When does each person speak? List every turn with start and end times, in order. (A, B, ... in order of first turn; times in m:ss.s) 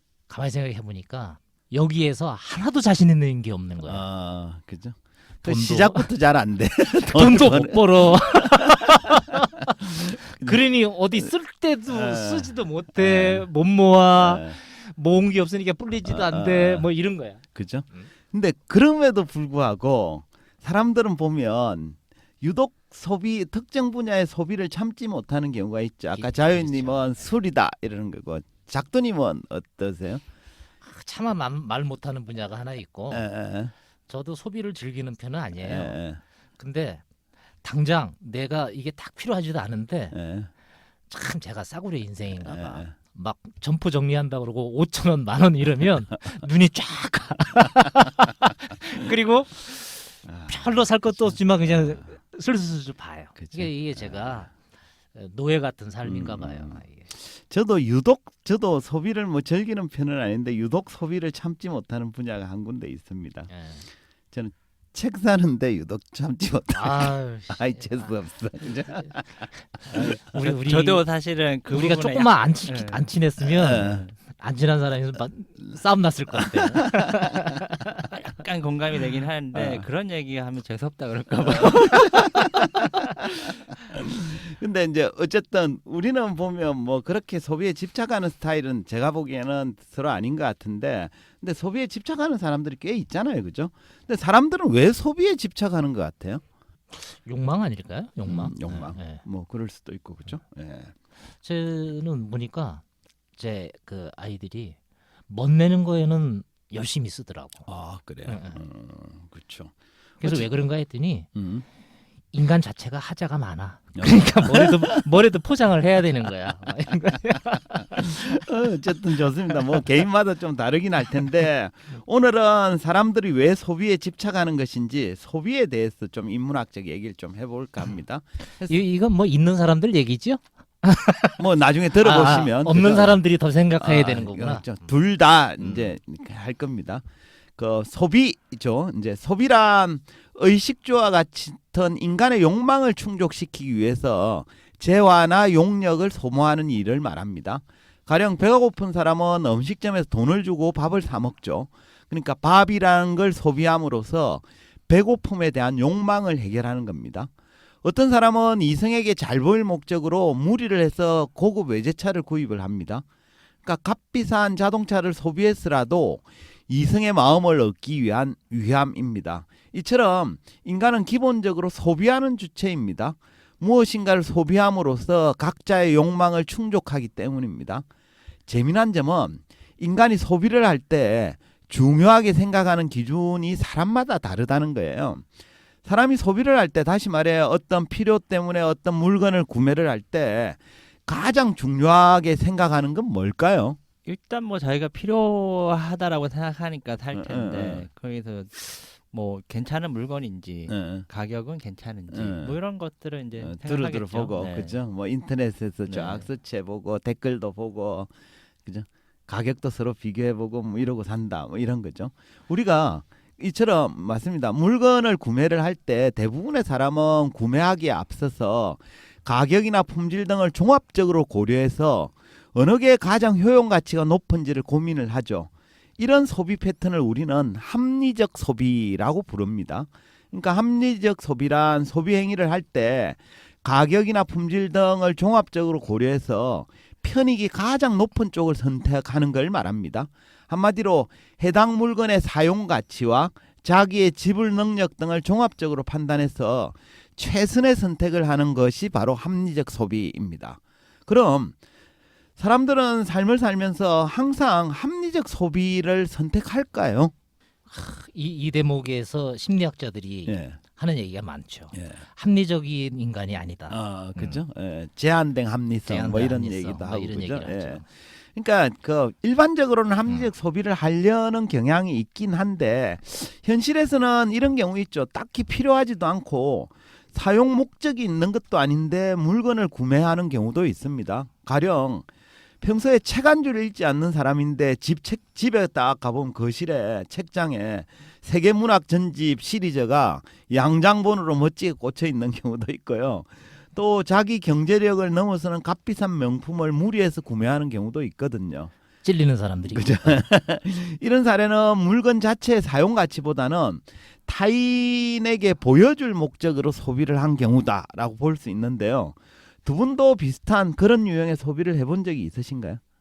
0:00.3-0:04.0 A
0:03.8-0:10.6 B
0:05.4-0:06.1 A
0:07.0-0:18.1 A
0:11.9-0:13.5 B
0:14.2-0:14.6 B
0:16.0-0:16.9 B
0:17.5-0:30.2 B
0:26.1-0:27.2 A
0:30.8-0:33.3 A
0:33.1-0:33.7 B
0:34.1-0:36.0 A
0:35.6-0:36.2 B
0:36.6-0:37.0 A
0:37.6-0:40.2 A
0:40.1-0:40.5 B
0:41.1-0:54.5 A
0:42.4-0:42.9 B
0:50.3-0:52.1 B
0:53.4-0:54.5 B
0:55.1-0:57.1 A
0:56.0-1:03.5 B
1:03.5-1:03.8 A
1:04.3-1:10.1 B
1:06.7-1:08.1 A
1:09.8-1:11.0 A
1:10.3-1:13.1 C
1:11.7-1:17.8 A
1:13.6-1:14.0 B
1:13.7-1:14.1 C
1:16.4-1:17.2 B
1:18.1-1:22.8 C
1:19.5-1:19.8 B
1:22.3-1:22.8 B
1:23.9-1:36.4 B
1:36.9-1:39.2 A
1:38.3-1:40.9 B
1:41.4-1:42.8 A
1:43.4-1:44.8 A
1:45.3-1:47.7 A
1:47.7-1:50.5 B
1:48.2-1:48.6 A
1:50.2-1:51.3 A
1:51.3-1:51.6 B
1:52.3-1:58.4 A
1:54.0-1:55.1 B
1:58.0-2:08.8 B
2:08.6-2:11.4 A
2:11.4-2:13.2 B
2:12.0-2:14.7 A
2:13.8-2:17.0 B
2:15.6-2:15.9 A
2:17.6-2:37.3 B
2:37.8-2:43.0 B
2:43.6-2:57.8 B
2:58.5-3:05.2 B
3:05.8-3:13.8 B
3:14.0-3:24.8 C
3:17.1-3:17.9 B
3:20.7-3:21.0 B
3:22.1-3:22.5 B
3:23.4-3:28.1 B
3:25.9-3:26.3 C
3:28.6-4:11.5 B
4:12.4-4:17.1 B
4:17.7-4:24.4 A
4:20.2-4:20.6 B
4:21.7-4:22.0 B
4:23.7-4:42.0 B
4:25.8-4:27.8 A
4:42.6-4:58.7 B
4:59.0-5:00.1 A
4:59.7-5:12.8 B